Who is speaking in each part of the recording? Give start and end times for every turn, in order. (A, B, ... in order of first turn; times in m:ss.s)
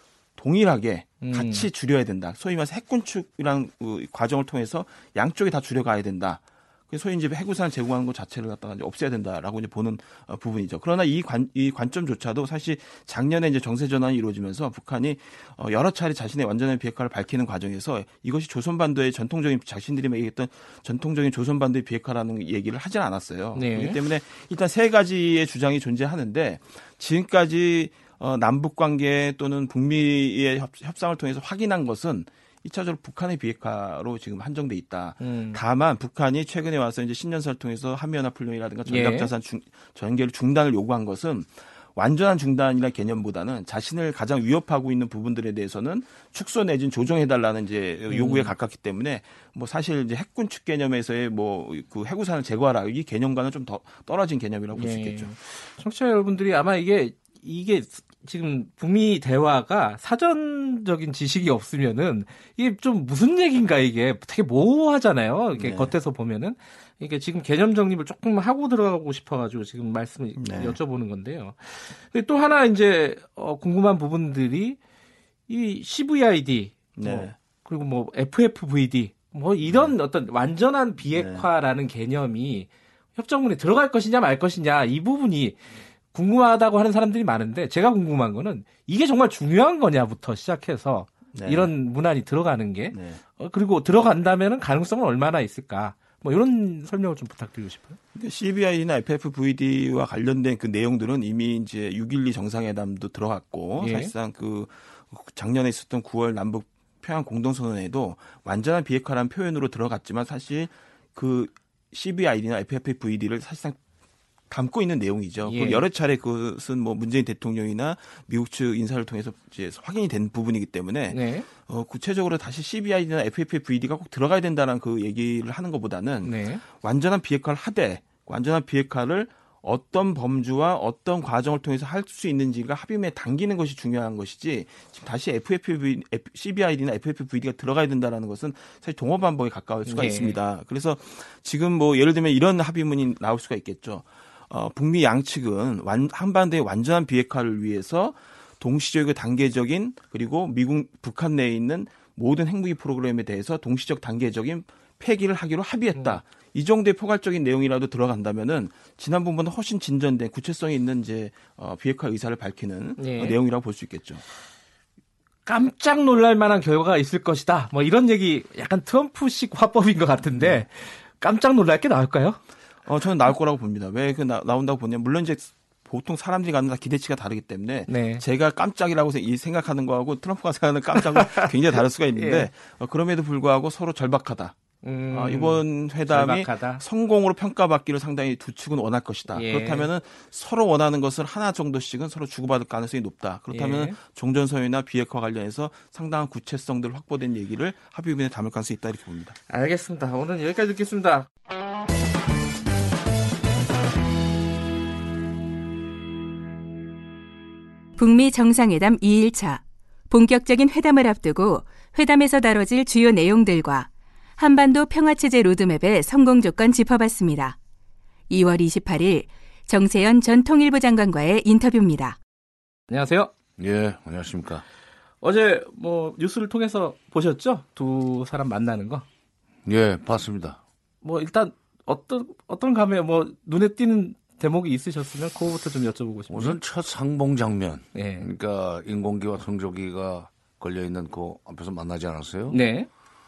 0:00.4-0:55.3 A
0:01.2-0:01.7 B
0:23.6-0:24.0 B
0:35.2-0:35.6 B
0:38.9-0:39.3 B
0:48.1-0:48.5 B
0:54.7-1:14.8 B
1:05.6-1:05.9 A
1:10.4-1:10.8 A
1:15.5-1:25.6 B
1:17.0-1:17.4 A
1:19.7-1:19.9 A
1:21.1-1:21.4 A
1:26.1-1:38.0 B
1:31.3-1:31.7 A
1:32.9-1:33.2 A
1:38.2-1:53.8 A
1:43.8-1:44.1 B
1:54.5-2:44.2 A
1:55.4-1:55.8 B
2:01.1-2:01.5 B
2:06.2-2:06.6 B
2:19.9-2:20.4 B
2:36.0-2:36.2 B
2:43.0-2:43.4 B
2:45.5-2:52.4 B
2:50.4-2:50.6 A
2:52.8-3:04.6 A
2:57.9-2:58.2 B
3:01.0-3:01.5 B
3:02.2-3:02.5 B
3:04.8-3:06.8 B
3:05.1-3:19.4 A
3:09.3-3:09.9 B
3:13.5-3:14.0 B
3:19.5-3:21.3 B
3:28.0-3:37.6 C
3:38.3-3:42.2 C
3:42.9-3:43.3 B
3:43.6-3:44.6 D
3:45.2-3:49.0 B
3:49.7-3:50.6 D
3:51.0-3:56.6 B
3:56.3-4:02.6 D
3:57.9-3:58.3 B
4:02.5-4:02.9 B